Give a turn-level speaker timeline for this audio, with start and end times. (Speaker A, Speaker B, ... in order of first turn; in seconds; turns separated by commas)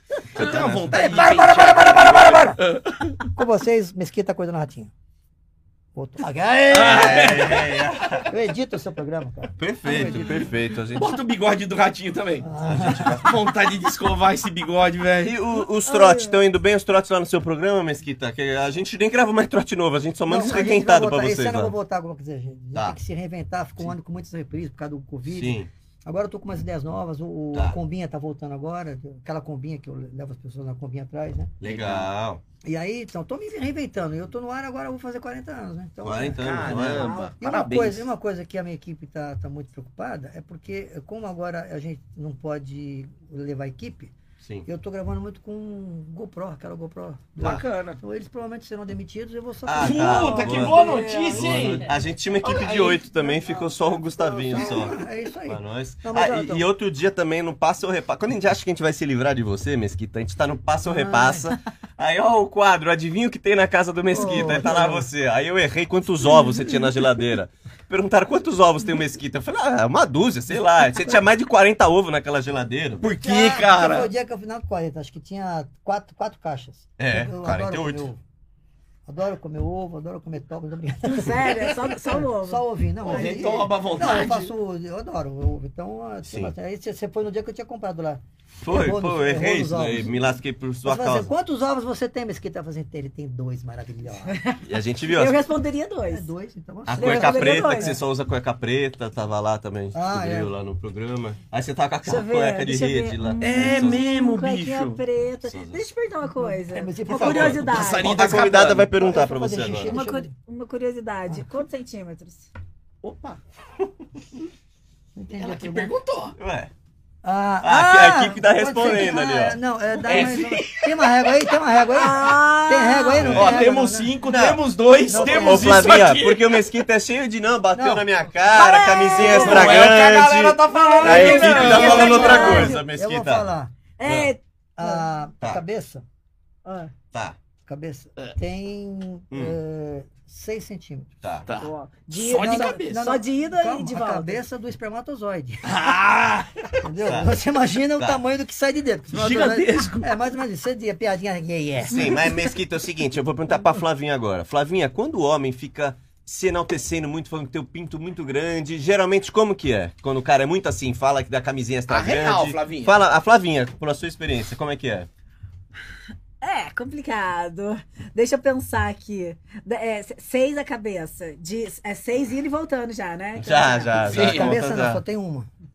Speaker A: 0.3-1.3, Speaker B: 0.4-3.2, Speaker C: 0.4-2.6, Speaker C: 3.2-4.9, Speaker C: 5.9-7.7, Speaker B: 6.7-8.2, Speaker A: 6.7-8.3, Speaker C: 8.3-10.3, Speaker A: 9.6-11.2, Speaker D: 9.9-10.4, Speaker B: 10.9-15.3, Speaker C: 12.4-13.3, Speaker A: 12.6-13.3, Speaker A: 15.2-21.7, Speaker D: 15.8-16.4, Speaker C: 20.3-31.5, Speaker A: 25.2-25.7, Speaker A: 27.5-27.8, Speaker A: 31.6-32.4, Speaker B: 31.6-32.1, Speaker C: 32.6-36.8, Speaker A: 36.0-37.2, Speaker B: 36.4-38.1, Speaker D: 36.8-37.3, Speaker C: 37.4-44.1, Speaker A: 44.4-44.6, Speaker C: 44.6-50.5, Speaker B: 47.4-48.0, Speaker A: 49.6-73.1, Speaker B: 49.8-51.9, Speaker D: 50.0-51.9, Speaker B: 52.4-53.1, Speaker C: 54.1-56.6, Speaker C: 60.9-61.5, Speaker C: 64.1-65.1, Speaker B: 73.0-74.1, Speaker C: 73.0-78.2, Speaker A: 77.0-78.1, Speaker C: 79.1-90.1, Speaker D: 81.1-83.7, Speaker B: 83.0-84.5, Speaker A: 86.2-86.5, Speaker A: 88.6-91.3, Speaker C: 90.8-94.3, Speaker D: 94.3-96.3, Speaker A: 94.6-95.4, Speaker C: 96.1-98.0, Speaker A: 96.9-104.0, Speaker D: 97.0-98.0, Speaker C: 99.9-100.5, Speaker D: 102.0-108.2, Speaker B: 103.4-105.0, Speaker A: 105.4-105.9, Speaker C: 106.2-110.3, Speaker B: 107.2-108.9, Speaker A: 107.3-110.0, Speaker D: 109.9-112.5, Speaker B: 113.0-113.4, Speaker C: 115.2-115.9, Speaker B: 115.4-116.3, Speaker A: 116.4-116.7, Speaker C: 117.2-124.1, Speaker A: 117.6-119.6, Speaker B: 120.0-121.3, Speaker D: 121.9-123.3, Speaker A: 123.2-123.6, Speaker B: 123.2-126.7, Speaker A: 124.2-134.3, Speaker C: 125.1-126.0, Speaker C: 127.7-128.1, Speaker D: 128.5-130.0, Speaker B: 129.1-132.7, Speaker D: 130.7-132.8, Speaker C: 131.5-133.7, Speaker D: 134.0-135.1, Speaker C: 134.8-136.0, Speaker D: 136.6-136.9, Speaker A: 137.1-137.4, Speaker C: 137.7-141.1, Speaker A: 139.3-139.6, Speaker A: 141.2-141.5, Speaker B: 141.5-143.1, Speaker D: 141.6-144.4, Speaker C: 142.3-145.9, Speaker B: 145.6-146.8, Speaker C: 146.8-152.1, Speaker A: 147.0-147.3, Speaker B: 149.1-150.1, Speaker A: 151.9-165.1, Speaker B: 161.9-163.0, Speaker D: 166.4-173.9, Speaker A: 173.4-175.0, Speaker B: 174.0-174.5, Speaker C: 174.1-175.5